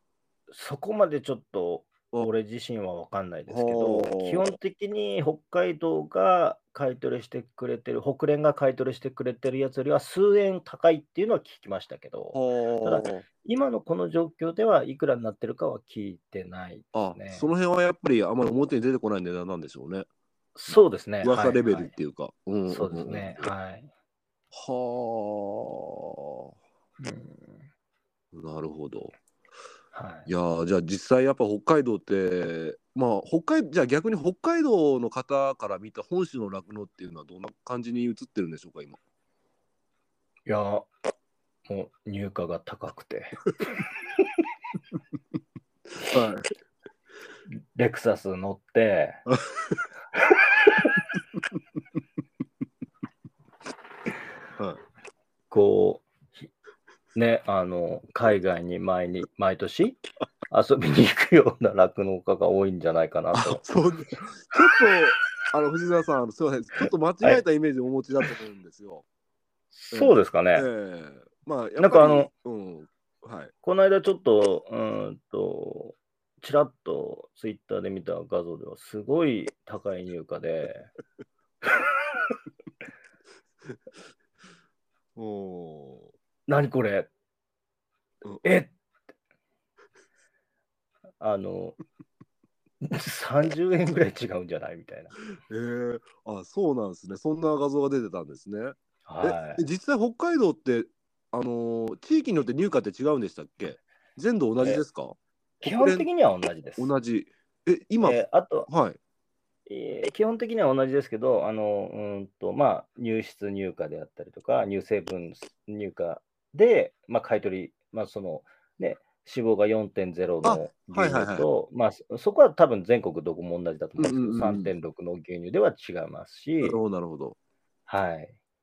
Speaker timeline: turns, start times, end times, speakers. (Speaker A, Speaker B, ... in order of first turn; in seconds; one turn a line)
Speaker A: 0.5-17.5
Speaker B: 3.5-4.5
Speaker B: 12.3-13.2
Speaker B: 16.9-20.1
Speaker A: 20.6-21.9
Speaker B: 20.7-23.5
Speaker A: 22.7-23.9
Speaker B: 24.5-26.5
Speaker A: 27.0-27.6
Speaker B: 28.3-29.1
Speaker A: 29.9-30.3
Speaker B: 30.3-39.0
Speaker A: 40.5-40.9
Speaker A: 41.7-43.4
Speaker B: 46.0-46.5
Speaker A: 47.8-49.2
Speaker A: 55.5-56.5
Speaker A: 57.1-63.6
Speaker B: 63.3-69.0
Speaker A: 69.7-70.7
Speaker B: 69.9-73.5
Speaker A: 71.8-72.3
Speaker A: 73.6-80.9
Speaker B: 85.2-86.1
Speaker A: 86.5-87.1
Speaker A: 88.4-88.7
Speaker A: 91.2-91.8
Speaker A: 92.8-95.2
Speaker B: 95.3-106.1
Speaker A: 99.1-99.7
Speaker A: 105.6-106.9
Speaker B: 106.8-109.0
Speaker A: 108.0-108.7
Speaker A: 109.7-126.8
Speaker B: 120.4-121.5
Speaker B: 124.0-124.7
Speaker B: 126.6-127.4
Speaker A: 127.9-128.4